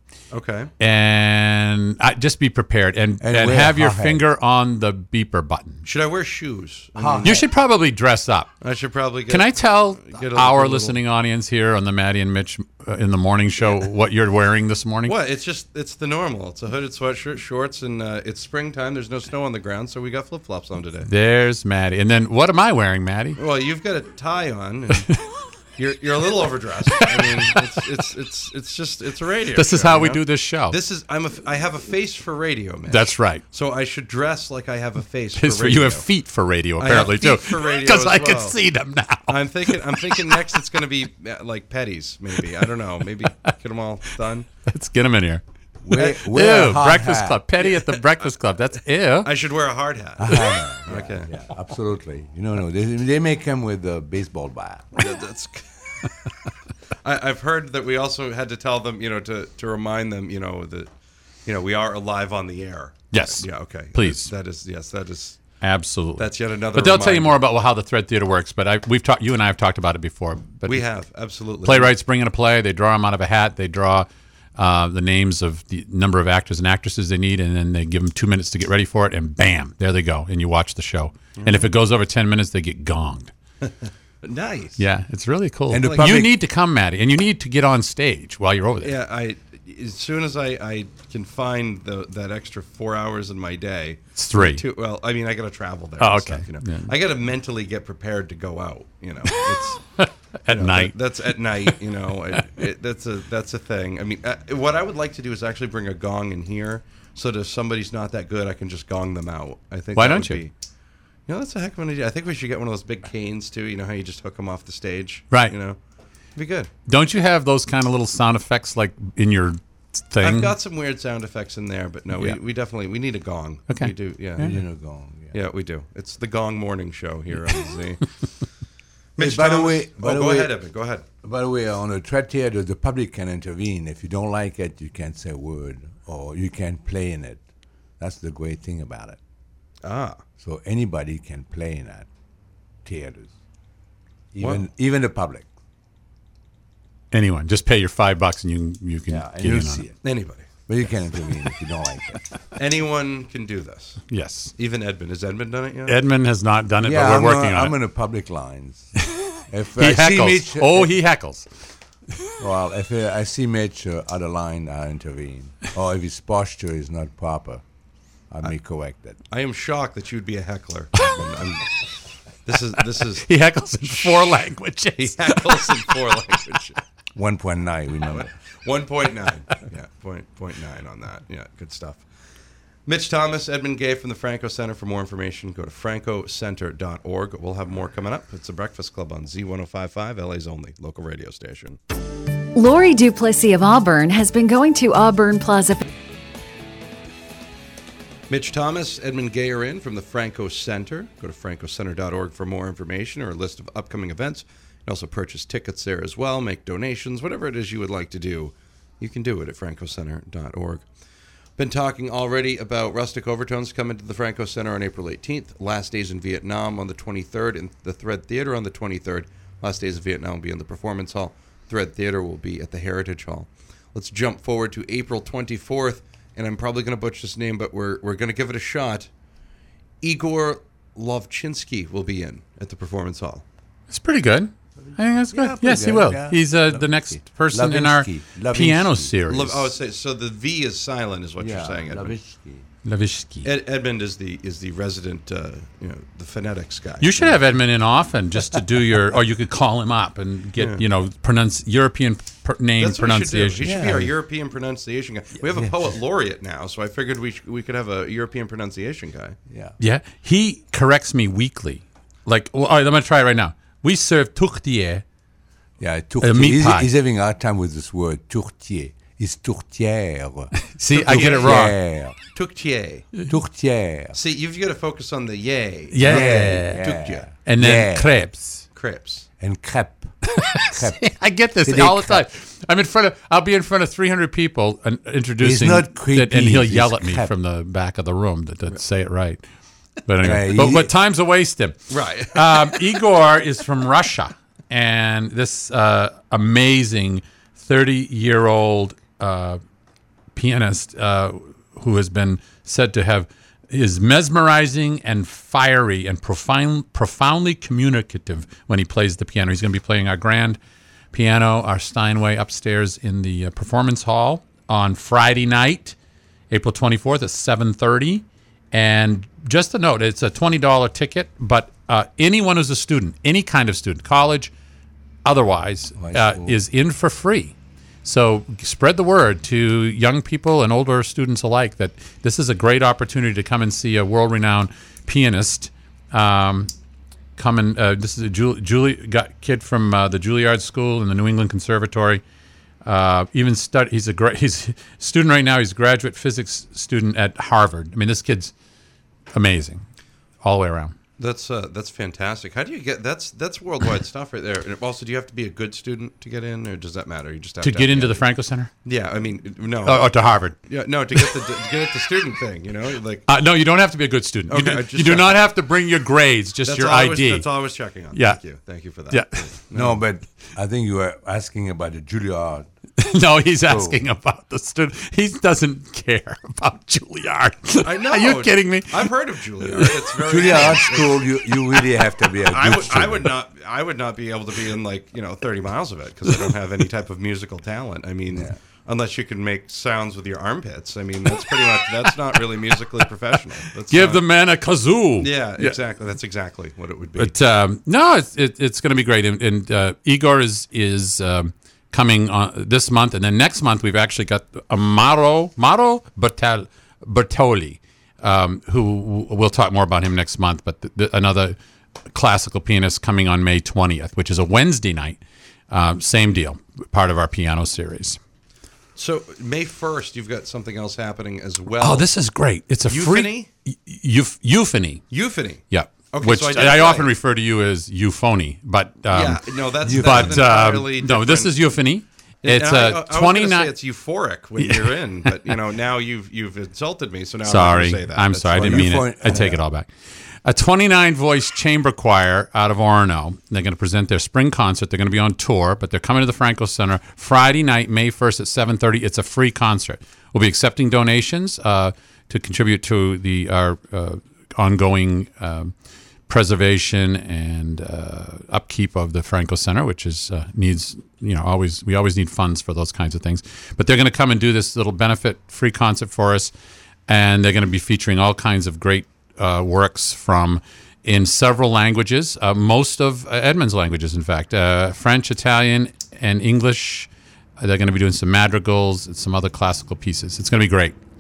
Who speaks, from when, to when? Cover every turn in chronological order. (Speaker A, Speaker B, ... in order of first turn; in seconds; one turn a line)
Speaker A: 0.3-0.7
Speaker B: 0.8-5.8
Speaker C: 3.2-4.2
Speaker A: 5.8-7.4
Speaker C: 7.0-7.5
Speaker B: 7.2-8.5
Speaker A: 8.6-11.0
Speaker B: 9.3-15.2
Speaker A: 15.1-21.1
Speaker B: 21.1-23.4
Speaker A: 23.4-25.1
Speaker A: 25.8-36.0
Speaker B: 29.6-30.8
Speaker B: 32.9-33.4
Speaker B: 35.4-40.4
Speaker A: 36.8-38.6
Speaker A: 39.3-44.5
Speaker B: 44.7-45.4
Speaker C: 45.8-47.4
Speaker B: 46.0-49.3
Speaker A: 47.7-48.0
Speaker A: 49.2-51.3
Speaker C: 50.2-55.0
Speaker A: 55.0-56.1
Speaker A: 57.0-60.9
Speaker A: 61.5-65.4
Speaker B: 63.1-64.3
Speaker B: 65.6-70.8
Speaker A: 66.2-67.4
Speaker A: 70.7-71.9
Speaker B: 71.6-83.3
Speaker A: 81.4-81.7
Speaker A: 84.2-84.8
Speaker B: 84.8-89.0
Speaker C: 85.7-86.3
Speaker A: 85.8-86.1
Speaker A: 88.8-99.9
Speaker B: 94.2-94.6
Speaker B: 96.0-96.9
Speaker B: 100.0-100.9
Speaker A: 100.5-110.5
Speaker B: 110.0-110.4
Speaker A: 111.3-115.8
Speaker A: 116.4-116.7
Speaker B: 116.9-120.5
Speaker A: 120.2-124.5
Speaker B: 123.7-124.5
Speaker C: 124.4-125.4
Speaker A: 125.3-128.1
Speaker A: 129.2-131.1
Speaker C: 129.2-130.5
Speaker C: 131.2-137.4
Speaker C: 138.0-139.2
Speaker A: 139.8-140.2
Speaker C: 140.4-142.1
Speaker C: 142.8-143.3
Speaker C: 144.3-145.5
Speaker A: 144.4-144.7
Speaker B: 147.1-149.8
Speaker C: 149.1-150.0
Speaker A: 150.0-150.5
Speaker C: 150.7-152.2
Speaker A: 152.6-154.0
Speaker B: 154.1-154.5
Speaker A: 154.6-156.0
Speaker B: 155.9-157.8
Speaker C: 156.8-159.0
Speaker C: 159.5-160.9
Speaker B: 159.8-161.5
Speaker C: 162.4-167.6
Speaker C: 168.3-169.2
Speaker A: 169.3-171.7
Speaker A: 172.4-174.3
Speaker B: 173.2-175.8
Speaker A: 175.0-176.8
Speaker C: 177.2-178.3
Speaker A: 178.1-182.0
Speaker A: 182.9-191.8
Speaker D: 192.6-195.9
Speaker A: 198.3-210.8
Speaker A: 211.6-229.1
Speaker A: 230.0-233.4
Speaker B: 233.9-239.7
Speaker C: 234.8-239.1
Speaker A: 239.3-242.2
Speaker C: 241.4-242.7
Speaker B: 242.8-243.5
Speaker A: 243.4-247.4
Speaker B: 247.0-253.7
Speaker A: 250.6-250.8
Speaker A: 252.8-259.4
Speaker C: 253.6-254.1
Speaker C: 255.4-255.9
Speaker C: 259.5-259.8
Speaker B: 259.8-265.0
Speaker C: 265.8-270.5
Speaker B: 266.2-266.9
Speaker B: 270.6-271.8
Speaker A: 270.9-271.7
Speaker C: 271.0-272.2
Speaker A: 272.3-273.1
Speaker C: 273.3-274.2
Speaker A: 274.1-277.3
Speaker B: 275.9-276.9
Speaker C: 276.0-278.1
Speaker B: 277.4-278.6
Speaker A: 278.8-279.3
Speaker C: 279.4-282.2
Speaker B: 280.3-289.4
Speaker C: 285.4-287.3
Speaker B: 290.1-299.6
Speaker C: 290.2-290.9
Speaker A: 291.9-292.8
Speaker B: 300.4-310.6
Speaker B: 311.1-316.0
Speaker B: 316.5-324.5
Speaker B: 325.2-336.7
Speaker C: 326.0-326.6
Speaker B: 337.4-342.2
Speaker B: 342.8-348.5
Speaker B: 349.3-349.8
Speaker B: 350.4-350.9
Speaker A: 351.2-358.2
Speaker B: 357.6-358.7
Speaker A: 358.9-363.2
Speaker B: 359.9-360.6
Speaker B: 363.3-367.5
Speaker A: 364.5-365.5
Speaker A: 366.6-370.0
Speaker B: 368.1-368.4
Speaker B: 369.1-369.5
Speaker C: 369.7-372.7
Speaker B: 373.0-379.1
Speaker C: 373.6-374.0
Speaker A: 377.8-381.5
Speaker B: 379.7-379.9
Speaker C: 380.2-383.3
Speaker A: 382.4-394.2
Speaker C: 388.3-388.6
Speaker B: 393.9-395.8
Speaker A: 395.2-397.4
Speaker B: 397.2-411.6
Speaker B: 412.1-415.2
Speaker B: 415.7-418.2
Speaker A: 419.0-422.1
Speaker B: 421.8-425.0
Speaker A: 422.9-423.5
Speaker A: 425.1-427.1
Speaker B: 425.7-433.7
Speaker A: 429.1-431.6
Speaker C: 429.8-430.5
Speaker A: 432.4-439.1
Speaker B: 434.6-435.5
Speaker B: 437.5-439.9
Speaker C: 438.5-439.6
Speaker B: 440.4-455.7
Speaker B: 456.3-466.5
Speaker B: 467.1-481.0